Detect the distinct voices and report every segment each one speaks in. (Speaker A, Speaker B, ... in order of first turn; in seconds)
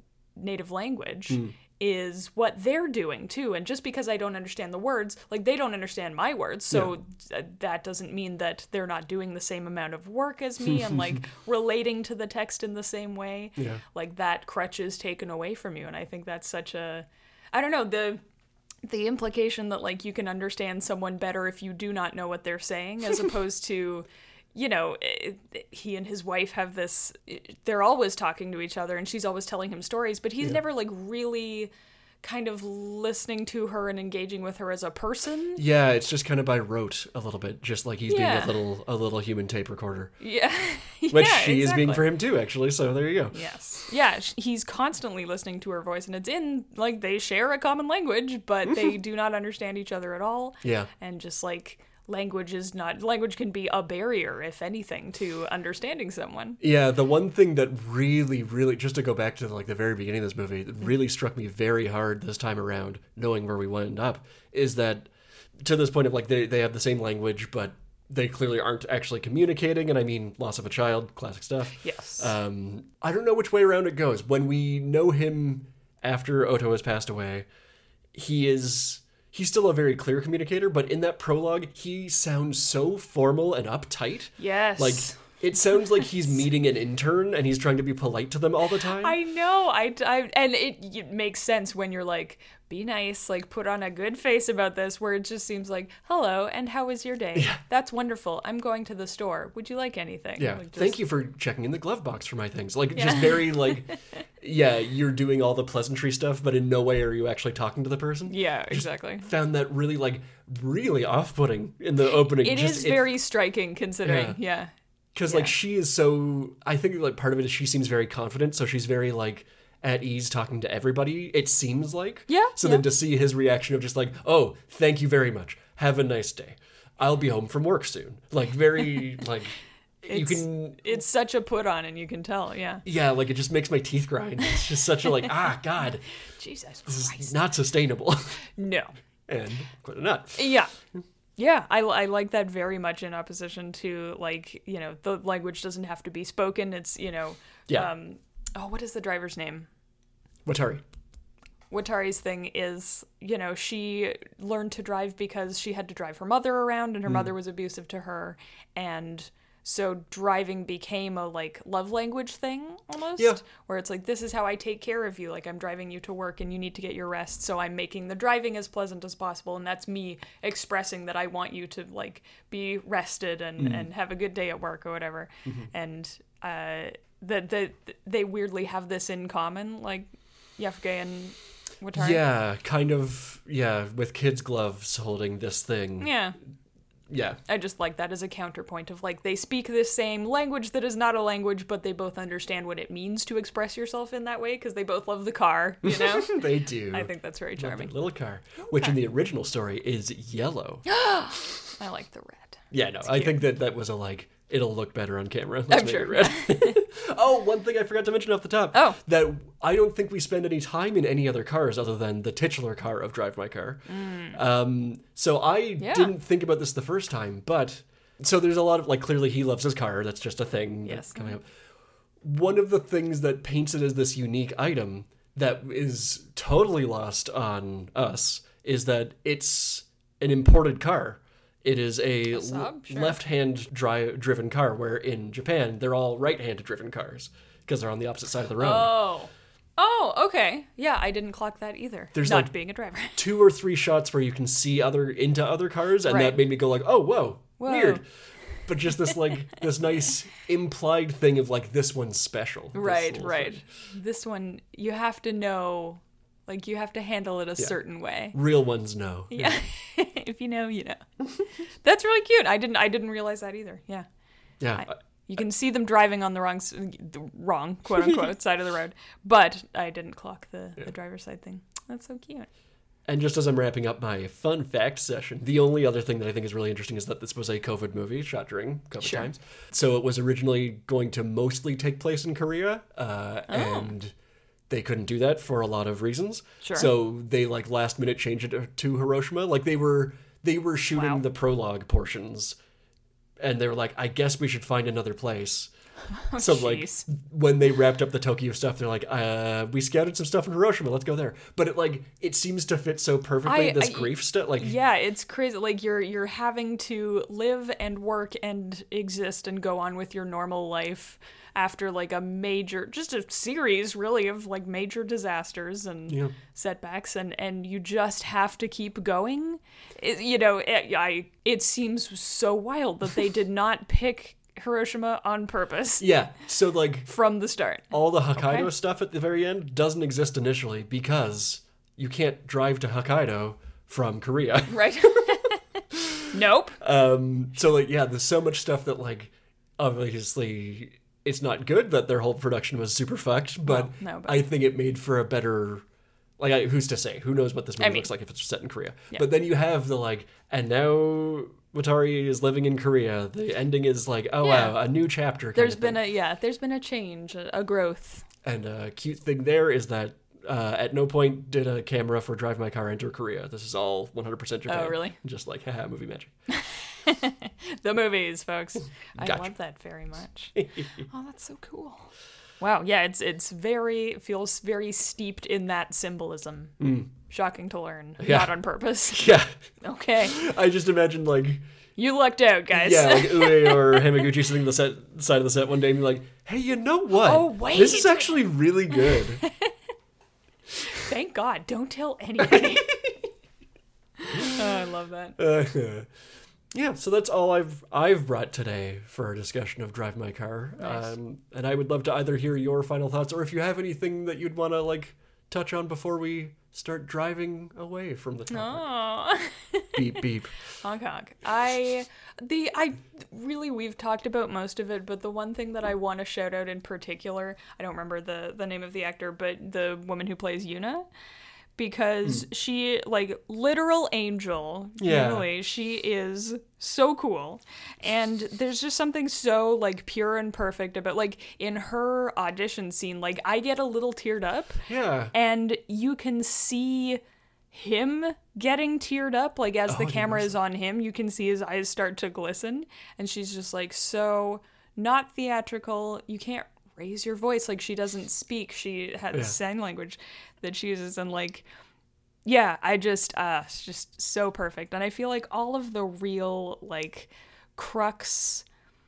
Speaker A: 0.4-18.2, 18.8-31.7, 32.2-35.6, 38.1-38.5, 40.2-42.0, 43.3-56.6, 71.8-72.3, 84.4-85.2, 89.0-101.0, 102.9-104.1, 108.3-109.3, 112.2-114.7, 122.3-122.8, 130.1-132.8, 136.4-137.3, 138.6-138.9, 140.4-140.7, 141.4-149.7, 151.7-182.2, 186.0-186.4, 187.5-198.0, 198.7-199.0, 200.9-203.4, 205.7-206.7, 208.7-209.0, 213.9-214.4, 215.8-216.1, 220.8-221.4, 232.3-233.2, 238.6-243.2, 246.1-246.4, 247.6-248.0, 252.7-258.4, 259.3-261.1, 261.8-264.1, 264.8-272.5, 279.0-279.3, 283.5-283.9, 286.6-286.9, 290.9-291.2, 296.3-297.1, 303.4-326.1, 327.1-328.7, 334.7-335.6, 336.3-336.8, 343.6-344.5, 347.8-348.1, 354.4-354.8, 355.6-358.3, 364.7-365.2, 366.5-370.6, 371.1-380.4, 382.0-384.0, 387.2-388.4, 390.9-393.0, 394.2-395.4, 400.8-401.1, 408.5-410.0, 410.8-421.1, 421.8-437.2, 437.7-451.7, 452.4-458.6
Speaker B: 1.3-1.6, 13.6-13.8, 35.6-40.1, 41.1-43.4, 50.6-50.9, 56.6-65.1, 65.6-77.5, 78.1-89.2, 100.4-113.0, 114.0-114.4, 115.2-131.0, 132.8-136.1, 136.9-138.5, 139.3-140.4, 150.5-150.8, 173.6-173.9, 175.4-175.7, 181.9-186.1, 187.1-187.4, 195.9-200.9, 202.7-221.5, 222.2-238.9, 242.1-242.5, 243.1-253.6, 258.3-259.6, 264.6-264.9, 273.1-284.1, 284.7-292.6, 293.4-295.7, 296.4-304.7, 316.1-316.4, 326.0-327.1, 327.9-335.3, 336.8-345.9, 346.4-356.0, 358.4-366.3, 369.2-369.5, 370.5-371.1, 376.8-377.1, 378.2-378.5, 379.1-379.6, 380.3-381.6, 382.7-389.4, 392.5-393.2, 395.4-396.1, 396.7-408.9, 409.9-410.6, 425.0-425.5, 434.9-435.3, 439.9-440.5